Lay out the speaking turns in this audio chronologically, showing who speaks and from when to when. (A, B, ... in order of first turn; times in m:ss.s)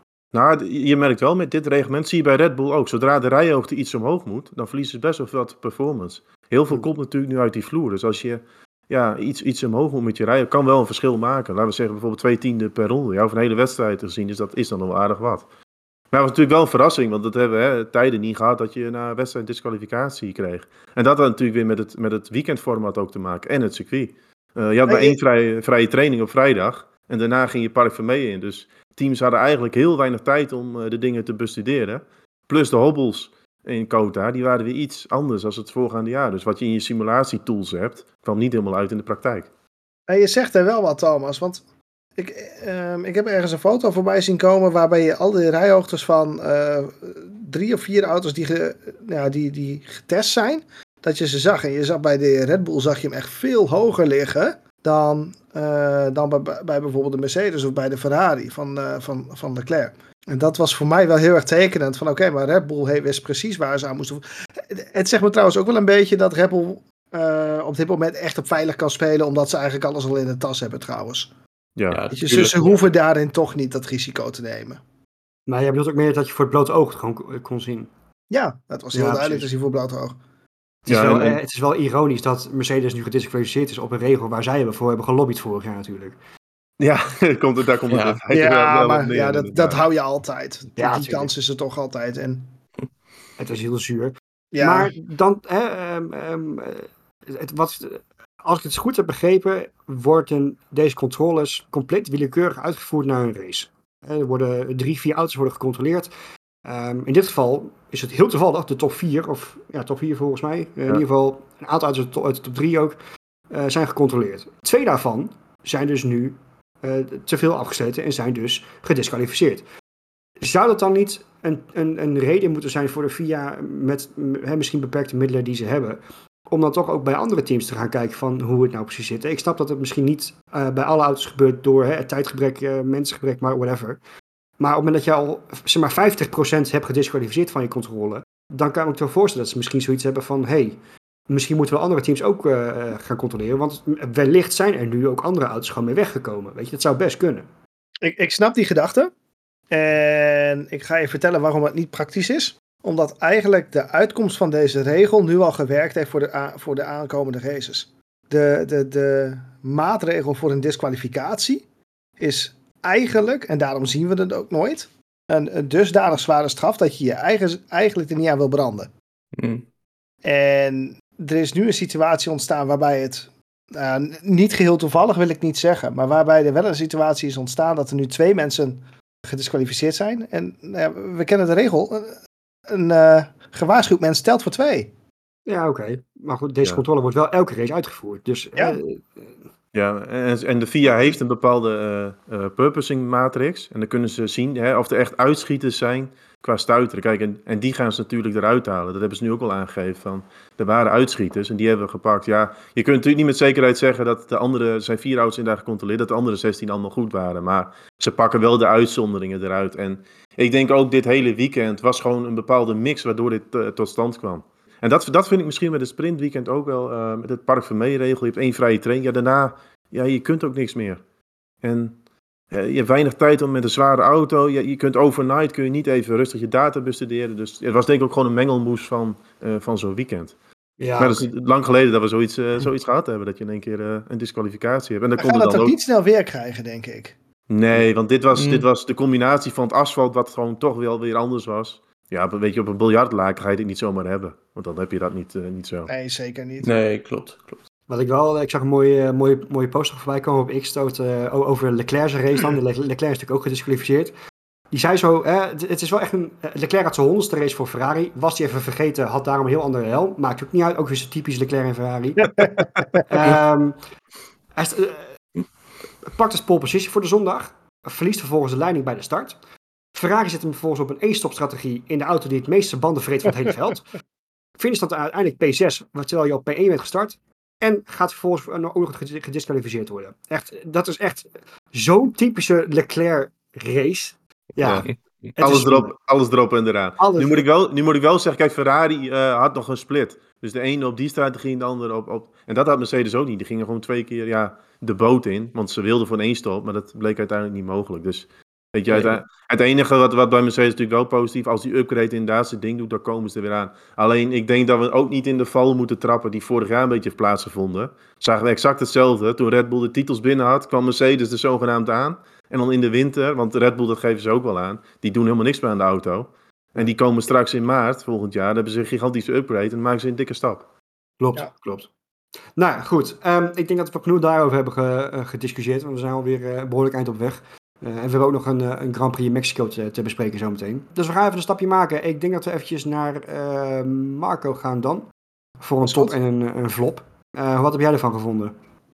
0:00.3-0:15.4 A
0:16.1-0:39.5 A
0:24.8-0:25.2 B
0:40.1-0:41.6 B
0:42.2-1:11.3 B
1:11.8-1:12.0 A
1:11.9-1:12.8 C
1:12.1-1:14.8 B
1:15.5-1:17.9 D
1:18.3-1:20.2 B
1:18.9-1:19.5 D
1:20.8-1:26.2 D
1:20.9-1:21.4 A
1:26.8-1:29.8 A
1:27.9-1:28.2 C
1:28.3-1:32.5 B
1:30.8-1:31.3 D
1:33.4-1:46.1 D
1:34.5-1:34.9 B
1:46.6-1:53.0 D
1:53.5-1:59.6 D
2:00.4-2:14.0 D
2:14.6-2:20.8 D
2:21.3-2:27.5 D
2:28.0-2:29.1 B
2:29.7-2:41.6 B
2:42.2-2:48.9 B
2:49.4-2:49.6 C
2:50.2-3:02.2 B
3:02.7-3:04.9 B
3:05.5-3:09.3 D
3:09.7-3:41.0 A
3:41.6-3:42.0 A
3:42.5-3:50.4 A
3:50.8-3:51.2 D
3:51.0-3:55.7 A
3:55.2-3:57.2 B
3:57.5-4:05.9 A
3:58.3-3:58.6 C
4:05.9-4:06.7 B
4:06.6-4:07.6 C
4:07.9-4:14.1 D
4:14.7-4:22.4 D
4:22.4-4:23.0 B
4:23.0-4:23.8 D
4:24.5-4:25.2 D
4:26.0-4:29.4 D
4:29.9-4:33.9 D
4:34.6-4:45.9 D
4:44.6-4:44.9 A
4:44.8-4:45.3 C
4:45.4-5:20.6 A
4:47.0-4:47.4 D
4:58.9-4:59.2 C
5:21.2-5:21.9 D
5:22.6-5:35.1 D
5:35.6-5:38.5 D
5:35.8-5:36.1 B